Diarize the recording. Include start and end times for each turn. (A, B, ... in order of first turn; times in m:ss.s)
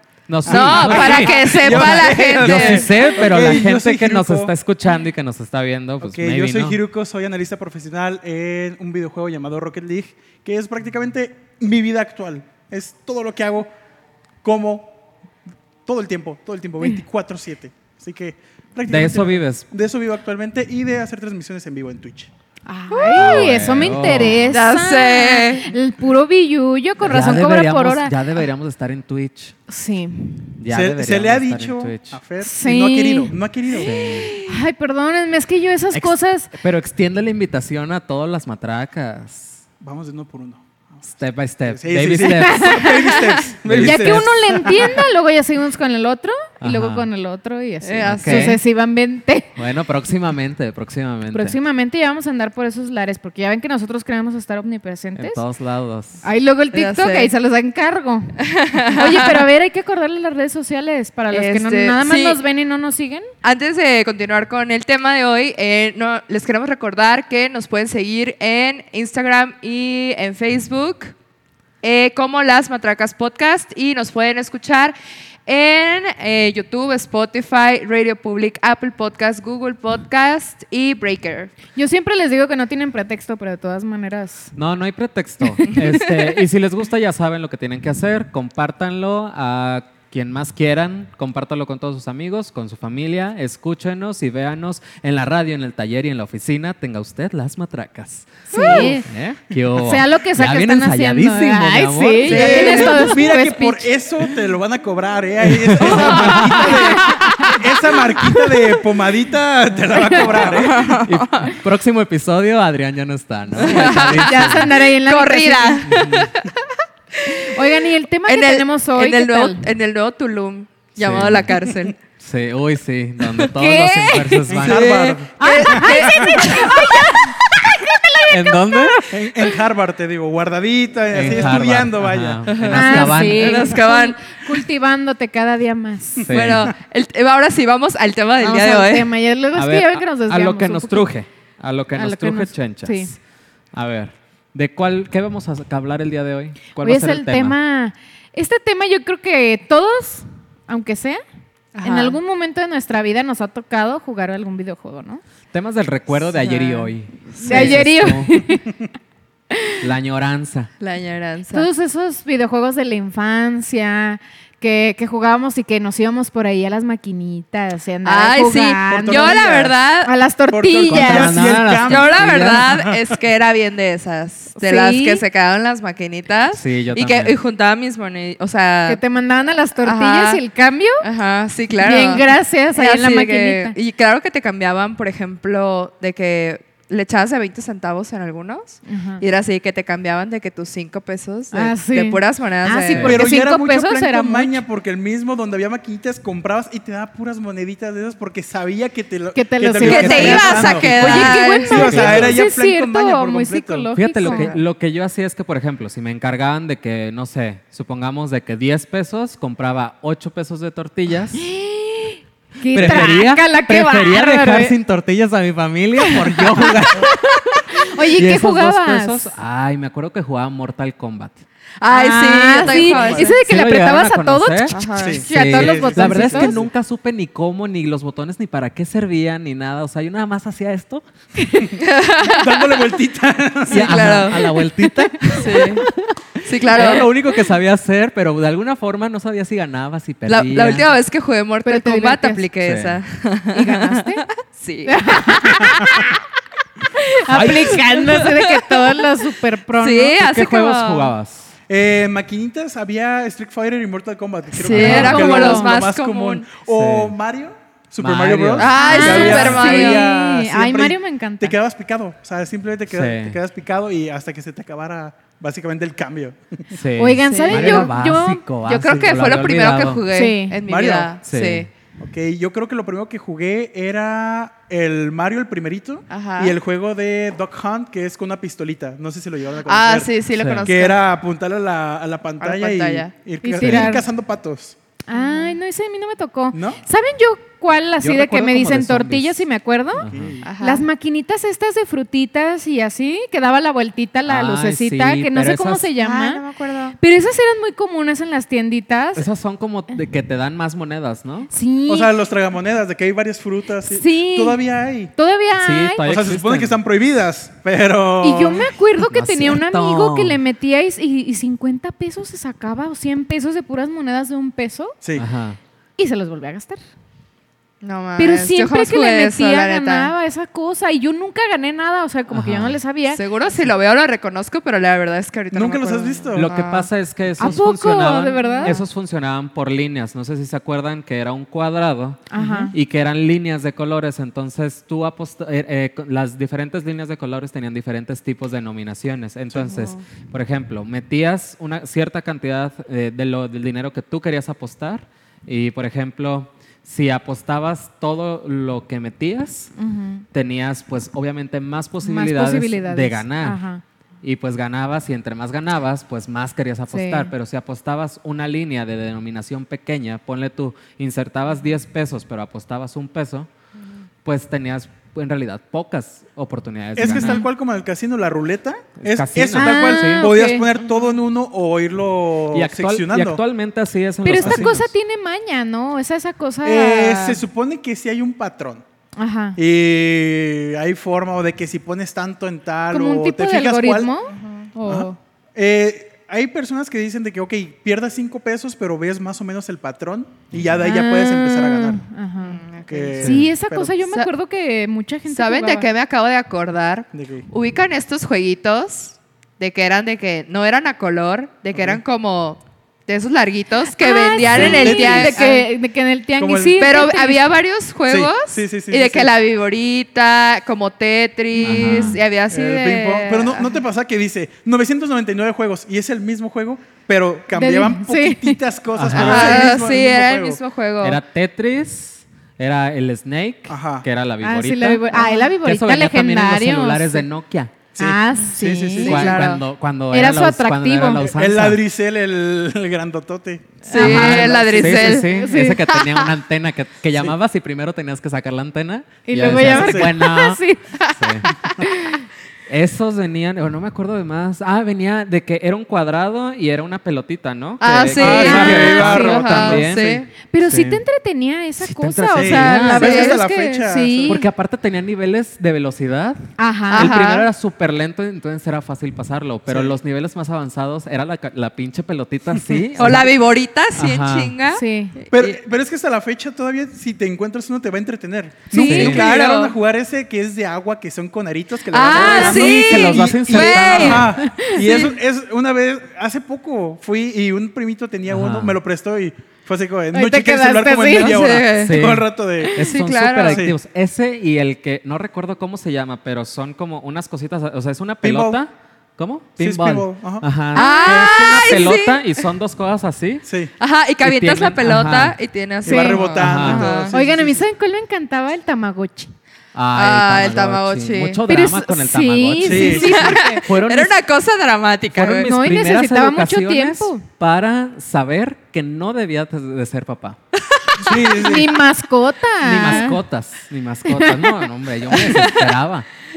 0:00.3-0:06.8 A
0:00.4-0:04.5 B
0:00.4-0:03.4 C
0:06.0-0:13.7 B
0:14.4-0:15.0 B
0:15.8-0:22.3 B
0:18.9-0:19.6 A
0:22.6-0:28.4 D
0:22.9-0:23.4 C
0:23.1-0:24.6 A
0:24.5-0:25.7 C
0:27.0-0:29.6 A
0:29.7-0:30.5 D
0:30.6-0:32.2 A
0:30.7-0:33.9 B
0:32.4-0:33.3 D
0:33.8-0:34.4 A
0:34.0-0:34.4 C
0:34.4-0:36.5 D
0:35.9-0:39.6 A
0:39.8-0:41.0 B
0:41.2-0:43.1 A
0:41.6-0:45.0 B
0:42.2-0:43.2 D
0:43.2-0:43.5 C
0:43.6-0:44.9 A
0:43.8-0:49.5 D
0:46.6-0:47.1 A
0:47.8-0:48.6 C
0:48.1-0:48.6 A
0:49.6-0:51.6 A
0:51.3-0:55.4 D
0:55.2-0:56.2 A
0:56.2-1:03.3 D
0:56.7-0:57.3 C
0:58.4-0:59.5 C
1:01.3-1:02.4 C
1:03.4-1:11.1 C
1:11.8-1:14.9 C
1:15.5-1:21.5 C
1:21.7-1:24.5 D
1:24.5-1:42.6 A
1:38.5-1:39.1 D
1:38.5-1:38.9 C
1:39.8-1:43.9 D
1:42.2-1:43.1 C
1:42.2-1:51.0 B
1:45.4-1:47.0 A
1:45.8-1:46.6 C
1:46.6-1:48.5 D
1:49.9-1:50.5 D
1:50.1-1:51.5 C
1:51.0-1:54.7 A
1:53.6-1:57.5 C
1:54.1-1:56.0 D
1:55.8-1:56.3 A
1:57.2-1:59.7 D
1:58.3-2:02.0 C
2:01.0-2:01.5 A
2:02.2-2:05.2 A
2:03.6-2:04.4 D
2:04.5-2:06.5 B
2:04.6-2:07.5 C
2:05.4-2:09.5 D
2:08.3-2:09.1 A
2:09.1-2:13.1 B
2:11.1-2:13.7 A
2:12.4-2:14.2 C
2:12.7-2:16.3 D
2:16.3-2:16.7 A
2:16.3-2:19.1 C
2:18.4-2:21.1 D
2:19.5-2:23.1 A
2:21.9-2:23.1 D
2:23.7-2:27.6 A
2:26.8-2:31.2 D
2:31.7-2:32.2 C
2:31.8-2:35.2 D
2:35.5-2:38.6 A
2:36.4-2:38.8 D
2:37.4-2:37.8 C
2:39.5-2:39.8 D
2:39.8-2:40.7 A
2:40.8-2:41.7 C
2:41.5-2:51.5 D
2:48.0-2:50.1 C
2:48.9-2:49.8 B
2:50.5-2:53.0 B
2:50.9-2:52.6 A
2:51.8-2:59.0 C
2:54.5-2:55.2 D
2:56.5-2:57.4 A
2:58.9-3:01.0 D
2:59.8-3:00.4 C
3:01.0-3:13.2 C
3:01.8-3:03.8 D
3:08.9-3:09.2 D
3:11.5-3:14.6 D
3:12.9-3:13.2 A
3:13.0-3:23.9 B
3:19.3-3:24.5 D
3:19.8-3:22.1 C
3:20.0-3:22.4 A
3:23.9-3:31.5 A
3:24.2-3:24.6 C
3:31.3-3:34.7 D
3:32.7-3:41.4 A
3:36.1-3:39.3 D
3:41.8-3:43.3 C
3:41.9-3:46.6 D
3:42.6-3:43.3 B
3:43.2-3:51.0 A
3:44.7-3:45.2 C
3:45.0-3:46.7 B
3:51.4-3:51.8 D
3:51.8-3:52.8 C
3:52.3-3:54.1 B
3:53.7-3:54.7 C
3:53.7-3:56.1 A
3:55.3-3:55.8 C
3:56.4-3:57.1 C
3:56.7-4:00.9 A
4:00.3-4:05.8 C
4:01.6-4:02.5 D
4:02.6-4:03.0 A
4:03.5-4:04.2 D
4:04.8-4:06.2 D
4:07.0-4:10.2 D
4:07.3-4:07.8 A
4:07.4-4:11.1 C
4:10.2-4:11.5 A
4:11.7-4:26.8 B
4:14.6-4:16.5 C
4:14.7-4:15.7 D
4:14.7-4:15.4 A
4:16.7-4:17.1 A
4:18.0-4:19.6 A
4:18.6-4:20.1 C
4:18.8-4:21.6 D
4:22.9-4:23.4 A
4:26.7-4:30.0 A
4:27.0-4:28.4 D
4:27.3-4:27.9 C
4:28.6-4:31.7 C
4:30.1-4:30.6 D
4:30.6-4:31.2 B
4:31.2-4:31.7 A
4:32.0-4:40.1 B
4:36.1-4:36.5 C
4:39.6-4:41.0 C
4:40.4-4:40.7 A
4:40.6-4:44.8 B
4:42.4-4:43.1 C
4:43.4-4:44.1 D
4:43.6-4:43.9 A
4:45.1-4:50.1 D
4:45.1-4:45.6 C
4:46.5-4:46.8 B
4:48.0-4:49.4 A
4:50.0-4:50.4 A
4:50.1-4:50.4 B
4:50.4-4:50.8 C
4:50.6-4:56.4 D
4:54.3-4:55.9 A
4:56.0-4:57.0 C
4:57.0-4:59.3 D
4:59.2-5:01.5 A
5:01.5-5:02.1 D
5:01.9-5:05.1 B
5:03.8-5:06.0 D
5:05.6-5:06.8 A
5:06.0-5:08.7 B
5:08.2-5:15.0 D
5:09.0-5:10.4 A
5:15.2-5:15.6 A
5:16.0-5:16.8 D
5:17.8-5:20.1 C
5:18.2-5:23.2 D
5:22.3-5:22.8 A
5:23.1-5:27.6 C
5:25.5-5:26.5 B
5:26.3-5:49.7 A
5:27.4-5:28.8 D
5:28.4-5:28.8 C
5:32.3-5:32.7 D
5:32.4-5:32.7 C
5:39.5-5:39.8 B
5:39.6-5:40.0 C
5:49.8-5:50.2 D
5:50.3-5:53.6 A
5:52.0-5:53.8 D
5:54.2-6:03.5 A
5:56.9-5:57.3 D
6:04.2-6:07.4 A
6:07.0-6:13.4 B
6:07.0-6:07.4 D
6:09.0-6:10.3 A
6:09.5-6:10.7 D
6:12.5-6:14.9 A
6:14.2-6:17.4 D
6:14.4-6:14.7 B
6:16.6-6:18.8 B
6:19.2-6:19.6 D
6:19.6-6:24.1 B
6:22.9-6:25.2 D
6:24.3-6:24.6 C
6:24.8-6:32.0 B
6:30.8-6:32.6 D
6:32.4-6:33.2 C
6:32.9-6:34.0 B
6:33.2-6:33.4 A
6:33.2-6:35.9 D
6:34.0-6:34.3 C
6:35.3-6:45.7 C
6:37.1-6:37.5 B
6:41.7-6:42.0 B
6:44.0-6:47.5 D
6:44.4-6:45.5 B
6:46.4-6:46.9 B
6:46.8-6:53.8 C
6:48.1-6:49.3 B
6:51.6-6:52.2 A
6:51.8-6:52.2 D
6:52.5-7:00.6 B
6:57.5-6:58.6 D
6:58.9-6:59.7 A
6:59.1-7:01.2 C
7:01.0-7:07.7 A
7:03.7-7:04.0 B
7:04.4-7:07.2 D
7:07.9-7:09.6 B
7:08.0-7:09.4 D
7:09.0-7:11.8 A
7:09.3-7:09.6 C
7:10.1-7:11.2 D
7:11.1-7:15.0 B
7:13.8-7:15.8 D
7:13.9-7:15.4 C
7:13.9-7:21.5 A
7:15.9-7:16.3 C
7:19.2-7:21.0 D
7:19.5-7:20.2 B
7:21.6-7:22.2 D
7:22.7-7:31.0 A
7:27.8-7:30.3 C
7:28.1-7:29.9 B
7:28.3-7:29.8 D
7:30.5-7:34.4 D
7:31.8-7:33.4 A
7:32.3-7:34.4 B
7:32.9-7:33.4 C
7:34.3-7:43.3 A
7:36.6-7:37.2 D
7:36.9-7:37.5 C
7:39.6-7:40.0 B
7:42.9-7:45.3 C
7:43.0-7:43.2 B
7:44.0-7:44.6 A
7:44.7-7:45.1 D
7:45.3-8:02.9 B
7:48.7-7:49.2 D
7:48.8-7:49.3 A
7:48.9-7:49.7 C
7:51.9-7:54.3 C
7:52.1-7:54.4 A
7:54.3-7:55.1 D
7:58.3-7:58.8 A
8:00.1-8:01.4 D
8:01.1-8:02.1 C
8:01.7-8:13.5 A
8:02.6-8:03.7 C
8:03.4-8:03.7 B
8:08.2-8:08.6 B
8:09.6-8:10.4 B
8:10.7-8:11.4 D
8:10.7-8:12.5 C
8:13.4-8:13.7 B
8:13.8-8:17.1 C
8:14.2-8:15.4 A
8:15.8-8:17.7 B
8:15.8-8:16.2 D
8:16.3-8:17.0 A
8:17.1-8:19.3 D
8:19.7-8:24.2 A
8:19.9-8:21.4 C
8:21.5-8:23.6 D
8:22.6-8:23.3 B
8:22.8-8:25.5 C
8:25.1-8:30.4 A
8:25.4-8:27.2 D
8:30.7-8:31.3 C
8:31.0-8:31.8 B
8:31.2-8:33.2 D
8:32.6-8:36.1 A
8:34.1-8:34.6 D
8:35.1-8:35.8 C